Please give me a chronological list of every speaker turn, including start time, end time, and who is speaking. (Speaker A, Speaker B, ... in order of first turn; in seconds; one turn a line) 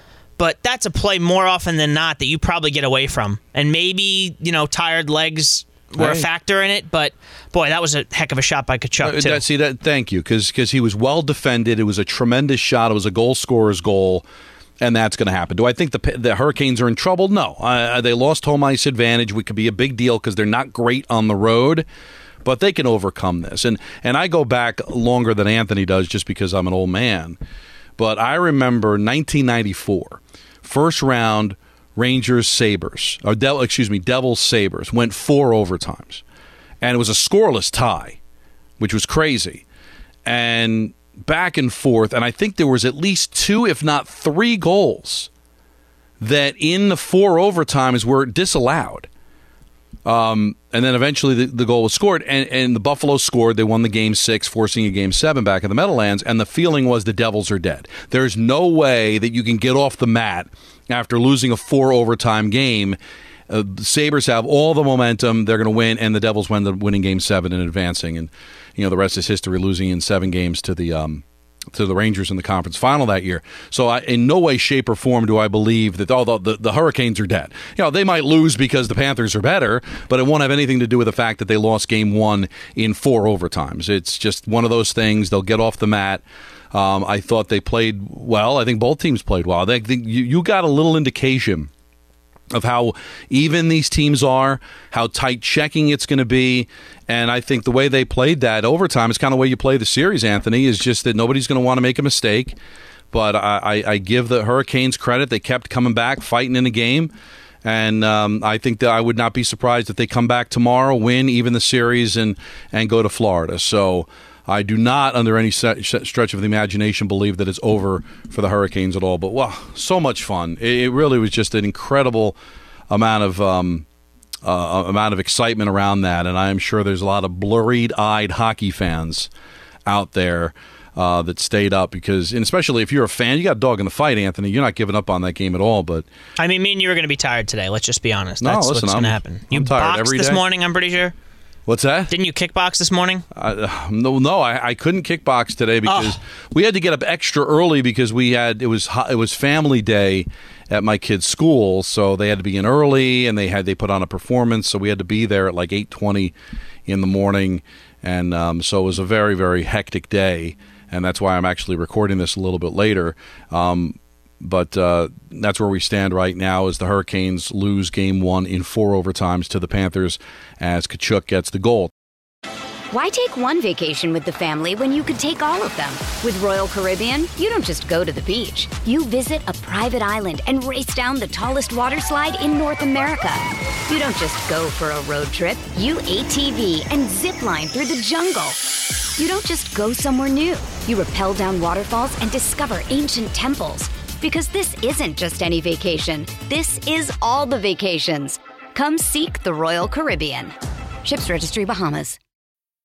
Speaker A: 0.4-9.4
Speaker B: 6.0-6.3
Speaker B: 9.0-14.3
Speaker B: 14.8-21.9
Speaker B: 22.4-27.4
Speaker B: 28.0-36.2
Speaker B: 36.8-38.2
Speaker B: 38.8-39.6
Speaker B: 40.2-45.3
Speaker B: 46.2-49.1
Speaker B: 50.0-63.0
Speaker B: 63.5-91.7
Speaker B: 92.5-102.6
Speaker B: 103.1-107.1
Speaker B: 107.6-122.4
Speaker B: 122.9-123.9
Speaker B: 124.4-129.3
Speaker B: 129.9-136.1
Speaker A: 136.4-141.1
Speaker B: 138.4-140.4
Speaker B: 141.7-142.1
Speaker A: 142.1-143.2
Speaker B: 143.3-156.3
Speaker A: 145.9-146.2
Speaker B: 156.9-171.9
Speaker C: 172.9-188.6
Speaker C: 189.2-202.2